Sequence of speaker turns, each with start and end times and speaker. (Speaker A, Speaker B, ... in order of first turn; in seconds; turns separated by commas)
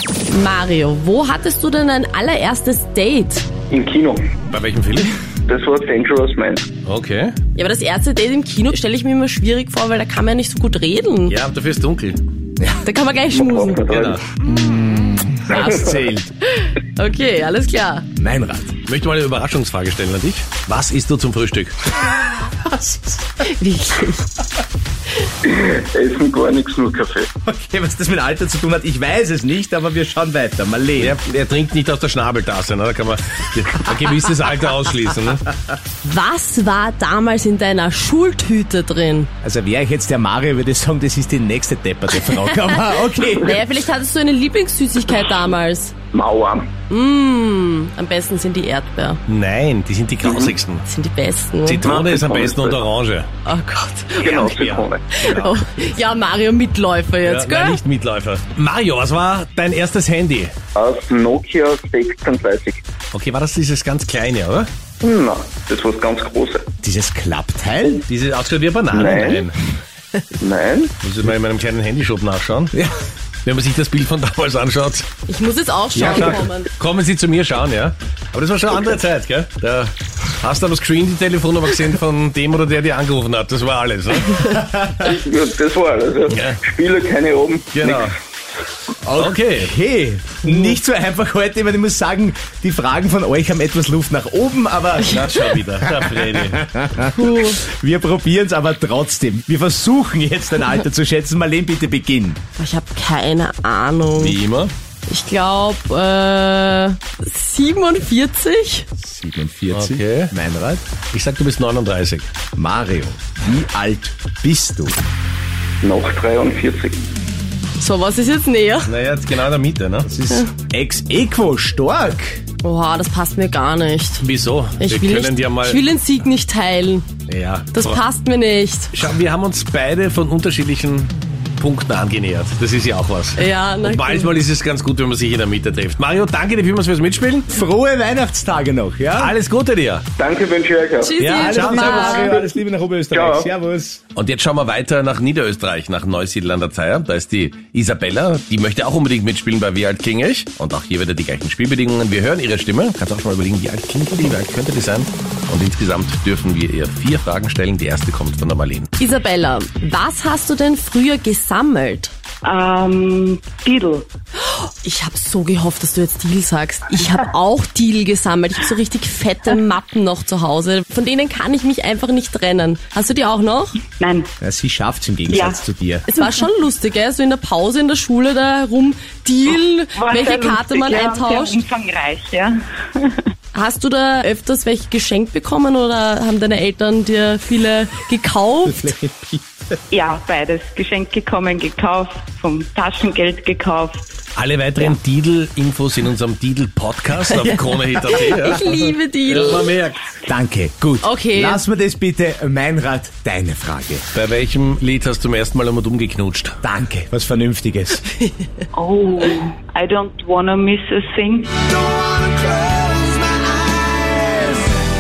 Speaker A: 0.3-3.5, Speaker B: 3.7-4.2, Speaker C: 4.5-5.2, Speaker B: 5.5-6.7, Speaker C: 6.8-7.4, Speaker A: 7.5-11.4, Speaker C: 11.3-12.2, Speaker A: 12.8-13.8, Speaker B: 13.3-14.2, Speaker C: 13.9-14.2, Speaker D: 14.4-16.3, Speaker B: 15.5-16.1, Speaker A: 16.6-18.1, Speaker D: 18.2-18.8, Speaker C: 18.9-21.8, Speaker D: 22.4-23.4, Speaker A: 23.4-24.4, Speaker B: 25.4-27.3, Speaker D: 27.4-31.2, Speaker C: 31.0-35.5, Speaker A: 36.0-39.3, Speaker D: 39.4-43.6, Speaker A: 42.5-46.0, Speaker B: 46.1-46.7, Speaker A: 46.9-49.2, Speaker C: 49.3-50.9, Speaker B: 50.2-50.6, Speaker A: 50.9-51.9, Speaker C: 51.6-53.3, Speaker B: 51.8-52.8, Speaker A: 53.5-54.4, Speaker B: 54.2-55.0, Speaker C: 54.2-55.5, Speaker A: 55.2-57.8, Speaker C: 57.2-60.5, Speaker B: 60.8-62.8, Speaker C: 63.1-64.7, Speaker B: 65.0-66.7, Speaker D: 66.8-68.0, Speaker C: 68.1-69.6, Speaker B: 68.9-69.5, Speaker B: 70.4-70.9, Speaker C: 71.0-72.9, Speaker C: 73.5-75.1, Speaker A: 75.3-76.7, Speaker C: 76.0-84.5, Speaker D: 84.4-85.2, Speaker B: 85.0-88.1, Speaker C: 86.3-86.6, Speaker C: 87.7-88.2, Speaker D: 89.0-102.4, Speaker C: 89.2-89.7, Speaker C: 95.0-96.7, Speaker A: 95.0-95.4, Speaker A: 97.0-97.6, Speaker A: 102.6-104.4, Speaker C: 104.2-104.7, Speaker A: 105.1-108.9, Speaker D: 109.0-110.8, Speaker C: 109.7-110.3, Speaker C: 111.1-112.3, Speaker D: 112.5-115.0, Speaker B: 115.8-117.0, Speaker A: 117.8-118.9, Speaker C: 118.8-120.1, Speaker D: 120.0-122.4, Speaker A: 122.6-124.2, Speaker C: 124.2-125.8, Speaker A: 124.8-127.1, Speaker C: 127.3-128.0, Speaker A: 127.7-129.0, Speaker C: 128.9-137.5, Speaker A: 133.4-134.3, Speaker D: 137.5-139.4, Speaker C: 139.2-140.1, Speaker B: 140.2-141.1, Speaker A: 141.0-142.4, Speaker C: 141.2-142.3, Speaker D: 141.3-144.0, Speaker B: 143.1-143.5, Speaker C: 144.2-158.9, Speaker A: 159.0-162.1, Speaker E: 162.4-164.1, Speaker A: 164.5-173.8, Speaker E: 174.0-174.3, Speaker D: 174.4-176.1, Speaker E: 175.3-175.6, Speaker A: 176.1-181.6, Speaker E: 176.2-176.4, Speaker E: 179.9-183.2, Speaker A: 183.5-188.9, Speaker D: 188.7-189.8, Speaker E: 189.9-194.0, Speaker C: 194.4-200.1, Speaker A: 197.4-199.7, Speaker D: 200.2-204.0, Speaker A: 201.0-201.6, Speaker C: 204.1-206.6, Speaker D: 206.6-208.1, Speaker E: 208.7-211.7, Speaker D: 211.8-214.8